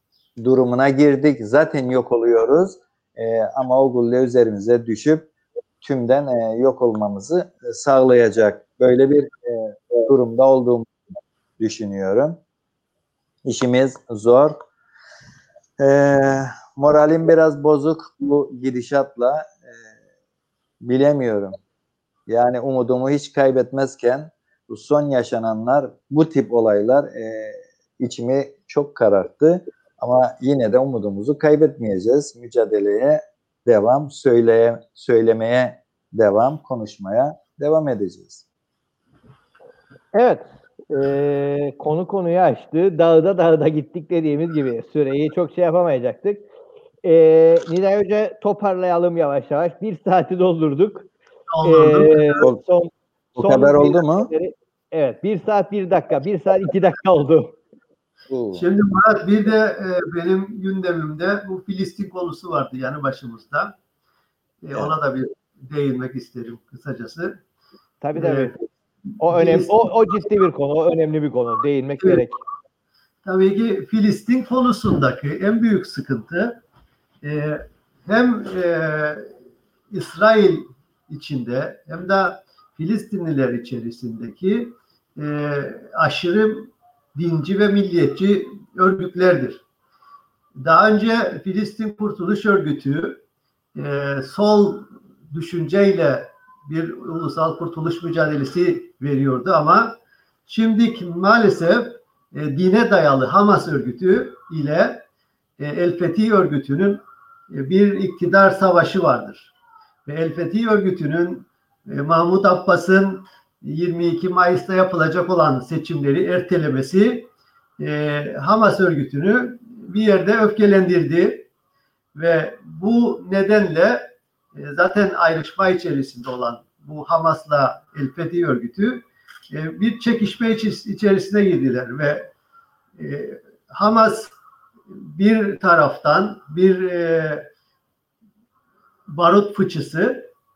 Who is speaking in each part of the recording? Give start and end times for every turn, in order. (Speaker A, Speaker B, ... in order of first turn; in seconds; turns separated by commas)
Speaker A: 0.4-5.3, Speaker A: 5.8-10.9, Speaker A: 11.6-12.4, Speaker A: 13.4-14.6, Speaker A: 15.8-19.7, Speaker A: 20.8-21.6, Speaker A: 22.3-38.4, Speaker B: 40.1-46.4, Speaker B: 47.0-51.1, Speaker C: 51.5-52.4, Speaker B: 51.6-57.6, Speaker A: 53.4-54.3, Speaker A: 58.3-58.6, Speaker C: 58.5-63.7, Speaker C: 64.6-67.4, Speaker B: 68.0-68.5, Speaker C: 68.2-68.5, Speaker B: 69.2-72.4, Speaker C: 69.3-69.9, Speaker C: 73.2-76.6, Speaker C: 77.2-79.3, Speaker C: 79.9-89.6, Speaker C: 90.6-93.2, Speaker C: 93.7-100.0, Speaker C: 100.5-105.0, Speaker C: 105.6-109.5, Speaker C: 110.0-117.3, Speaker C: 117.8-121.5, Speaker C: 122.1-124.0, Speaker C: 124.5-132.3, Speaker C: 133.0-134.3, Speaker C: 134.9-137.4, Speaker C: 139.1-140.3